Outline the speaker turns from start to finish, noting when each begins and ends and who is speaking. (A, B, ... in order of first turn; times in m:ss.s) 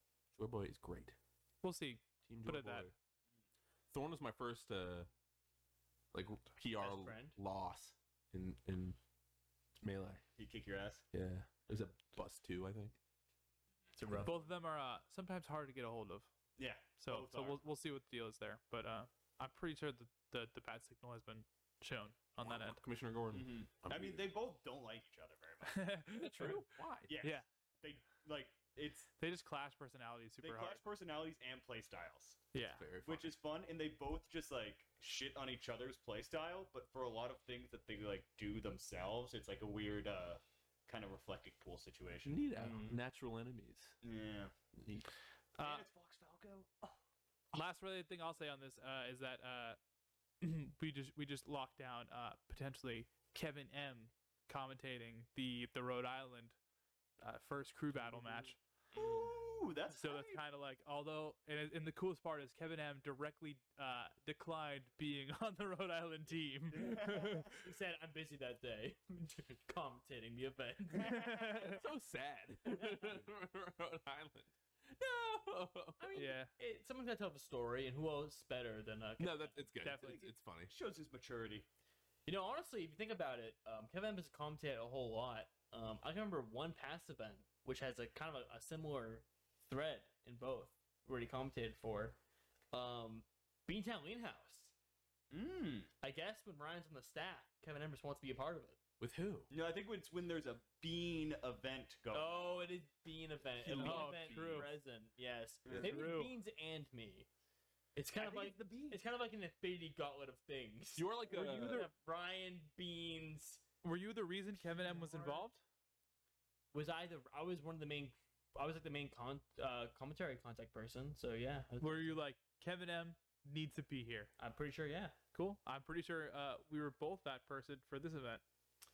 0:00.4-0:01.2 A
0:01.6-0:02.9 B
0:02.2-0:02.9 A
0:03.9-0:05.1 A
0:06.1-0:09.0 A
0:06.8-0:07.4 C
0:09.8-0:10.2 A
0:10.4-0:11.0 D
0:11.1-0:13.0 A
0:14.0-0:14.4 C
0:14.2-0:16.3 B
0:16.6-0:17.6 D
0:17.0-0:22.8 B
0:22.4-0:24.3 A
0:23.3-0:25.9 D
0:25.6-0:26.6 B
0:26.1-0:27.1 A
0:27.1-0:29.1 D
0:27.2-0:27.4 B
0:29.2-0:30.8 B
0:30.4-0:32.4 D
0:32.5-0:32.8 B
0:32.6-0:33.4 A
0:33.0-0:42.4 D
0:42.2-0:44.0 A
0:42.6-0:43.0 C
0:44.0-0:44.5 D
0:44.7-0:45.1 A
0:45.6-0:45.8 B
0:45.6-0:47.0 D
0:47.5-0:49.8 B
0:50.4-0:56.6 B
0:57.2-0:58.6 B
0:58.9-0:59.3 C
0:58.9-1:00.4 D
0:59.9-1:07.7 B
1:06.7-1:07.4 D
1:07.4-1:11.7 C
1:11.0-1:11.8 B
1:11.6-1:16.0 A
1:12.7-1:13.2 C
1:16.0-1:19.7 C
1:16.1-1:16.5 B
1:19.2-1:20.7 A
1:19.8-1:20.2 B
1:19.9-1:21.7 D
1:22.2-1:32.2 C
1:32.7-1:34.7 C
1:35.3-1:35.9 D
1:36.0-1:38.8 C
1:39.0-1:39.5 A
1:39.5-1:42.6 D
1:42.1-1:47.3 C
1:43.6-1:44.7 A
1:43.8-1:44.7 B
1:45.6-1:46.0 D
1:45.8-1:46.3 B
1:47.9-1:53.6 C
1:48.2-1:49.0 D
1:50.9-1:51.9 A
1:51.3-1:51.9 B
1:53.8-1:55.6 B
1:54.6-1:55.4 C
1:56.7-2:02.2 C
2:01.8-2:04.3 B
2:04.4-2:05.2 C
2:05.3-2:08.4 B